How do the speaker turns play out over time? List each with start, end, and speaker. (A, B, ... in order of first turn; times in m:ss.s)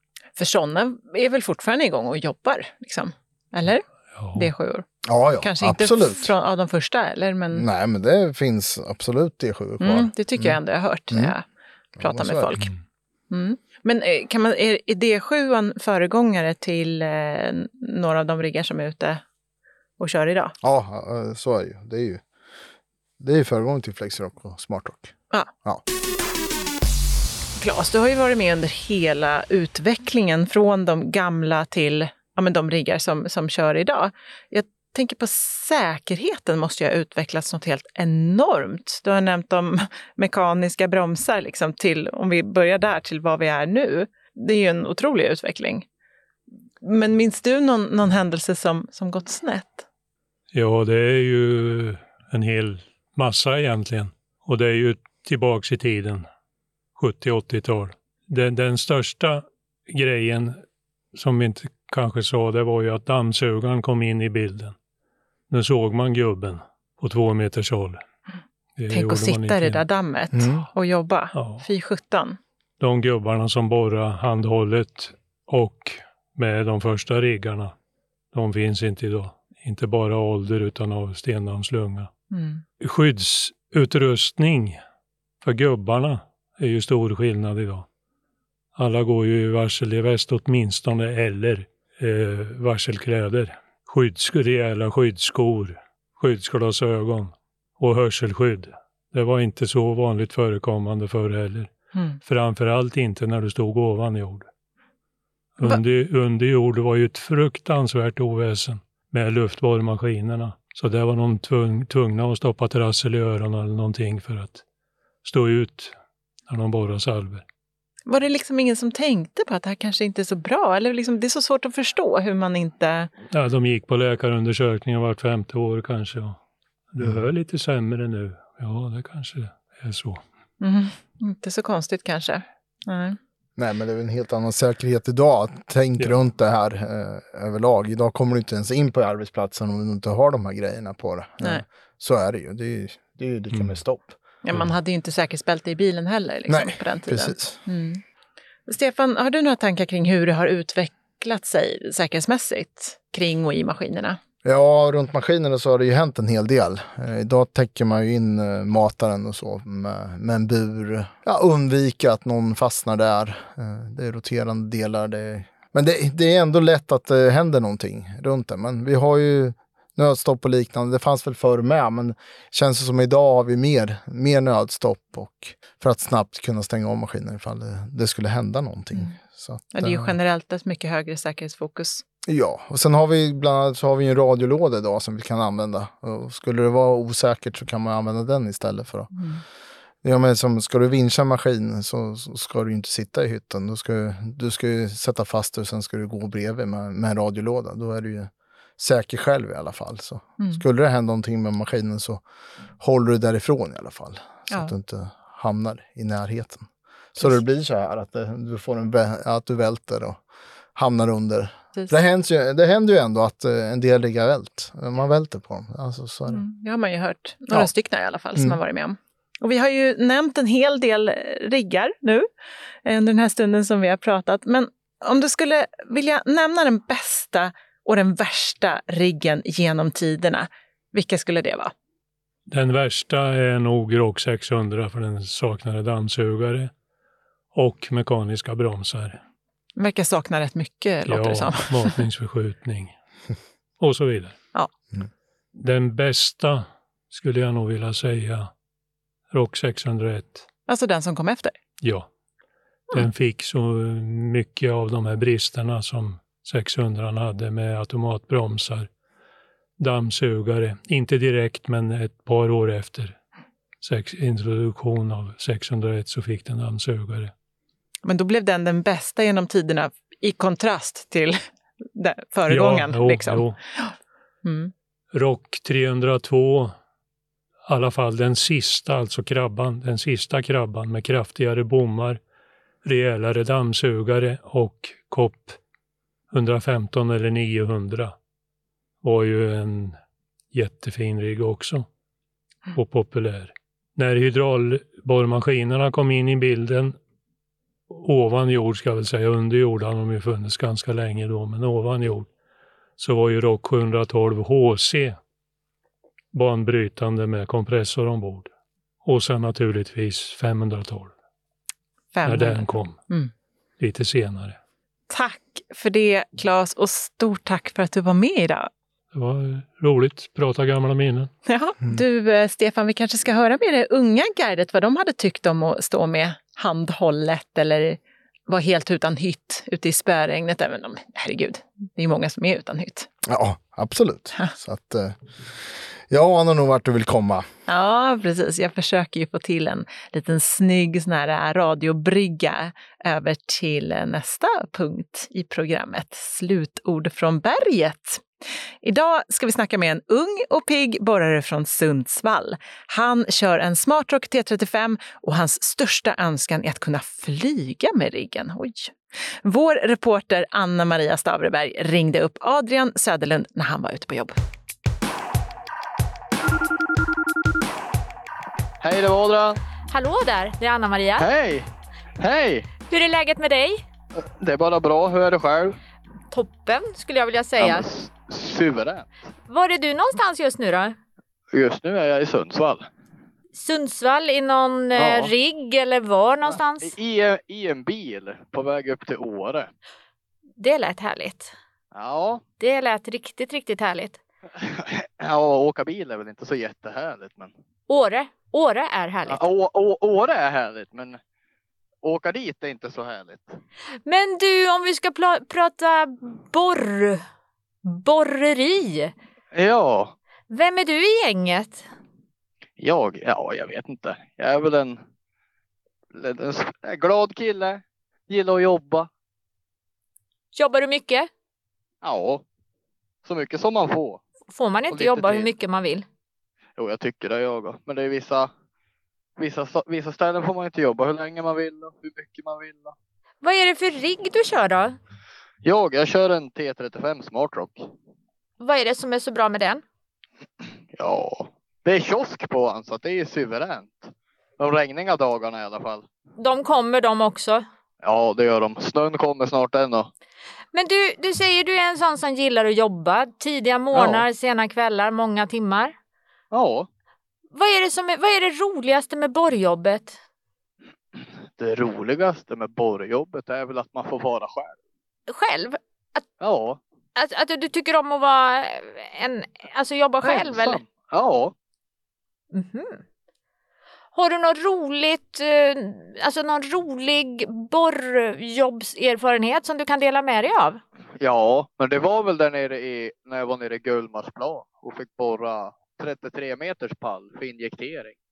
0:00.4-0:04.9 A
0:04.1-0:04.5 B
0:05.0-0:06.3 C
0:05.4-0:07.7 A
0:07.5-0:10.6 C
0:09.8-0:11.4 A
0:12.0-0:12.6 C
0:12.0-0:12.7 A
0:13.3-0:19.2 A
0:20.0-0:20.6 A
0:20.6-0:22.2 C
0:23.2-0:25.8 C
0:27.6-0:45.9 A
0:46.8-0:49.9 A
0:50.5-0:56.3 B
0:57.0-1:00.6 B
1:01.1-1:04.8 B
1:05.5-1:08.0 B
1:08.8-1:09.8 B
1:08.9-1:12.4 A
1:10.3-1:10.7 C
1:11.3-1:11.7 B
1:12.8-1:17.8 B
1:18.3-1:22.1 B
1:22.3-1:22.6 A
1:22.8-1:24.8 B
1:25.4-1:27.9 B
1:28.8-1:41.7 B
1:42.2-1:44.5 B
1:45.6-1:54.6 B
1:55.2-1:55.9 B
1:56.5-1:57.4 B
1:58.1-2:03.1 A
2:03.3-2:06.4 B
2:06.9-2:10.2 B
2:10.6-2:13.2 A
2:13.6-2:24.2 C
2:24.4-2:28.0 A
2:26.5-2:27.6 C
2:28.7-2:34.2 A
2:34.4-3:00.2 C
2:59.7-3:02.0 A
3:02.3-3:09.1 C
3:09.2-3:09.4 A
3:10.0-3:22.2 C
3:22.8-3:30.2 C
3:30.8-3:36.5 C
3:36.3-3:42.3 A
3:42.8-3:51.7 A
3:52.5-3:56.7 B
3:57.5-3:59.2 B
3:59.8-4:02.0 A
4:01.1-4:02.9 B
4:03.8-4:04.4 B
4:05.6-4:08.5 B
4:09.3-4:10.5 B
4:10.7-4:11.6 A
4:11.8-4:12.1 B
4:12.9-4:18.9 B
4:19.8-4:23.2 B
4:23.8-4:27.3 B
4:28.0-4:31.4 A
4:31.9-4:34.7 A
4:32.5-4:33.6 B
4:35.1-4:36.7 B
4:37.7-4:42.2 B
4:42.8-4:45.6 B
4:46.3-4:48.1 B
4:49.0-4:50.0 B
4:50.5-4:51.9 B
4:52.7-4:57.0 B
4:57.9-5:02.3 B
5:03.0-5:05.2 B
5:06.3-5:08.5 B
5:09.0-5:11.1 B
5:12.1-5:13.3 A
5:12.3-5:13.0 B
5:13.8-5:14.6 B
5:15.1-5:18.7 A
5:19.1-5:21.3 B
5:21.5-5:33.1 A
5:33.2-5:37.5 C
5:37.7-5:48.2 A
5:48.8-6:04.4 A
6:08.8-6:09.6 D
6:09.9-6:11.3 E
6:11.2-6:11.7 D
6:12.2-6:12.7 D
6:12.8-6:13.8 E
6:14.2-6:15.8 D
6:16.3-6:17.9 E
6:17.6-6:19.1 D
6:19.5-6:21.0 E
6:21.5-6:22.9 D
6:23.5-6:27.0 E
6:25.0-6:25.3 D
6:26.4-6:29.7 D
6:30.6-6:31.5 E
6:31.9-6:32.4 D
6:32.6-6:34.2 E
6:34.6-6:37.5 D
6:37.9-6:39.5 E
6:39.3-6:41.2 D
6:42.0-6:43.6 D
6:44.1-6:47.2 E
6:47.8-6:49.1 E
6:49.5-6:50.2 D
6:50.5-6:51.8 E
6:52.8-6:55.0 D
6:56.1-6:59.1 D
7:00.6-7:01.3 E
7:02.0-7:02.4 D
7:03.2-7:04.2 D
7:04.5-7:06.1 E
7:04.9-7:05.5 D
7:06.8-7:08.5 D
7:09.4-7:13.0 D
7:13.4-7:15.0 E
7:15.6-7:17.9 D
7:18.6-7:19.8 E
7:20.9-7:26.1 D
7:26.4-7:27.6 E
7:28.0-7:30.1 D
7:30.7-7:36.0 E
7:33.9-7:34.3 D
7:36.5-7:36.9 D
7:37.5-7:40.2 E
7:41.2-7:44.8 D
7:45.3-7:46.2 E
7:46.4-7:46.8 D
7:47.2-7:50.8 E
7:50.2-7:51.5 D
7:52.5-7:53.0 E
7:54.1-8:00.8 E
8:01.2-8:08.2 D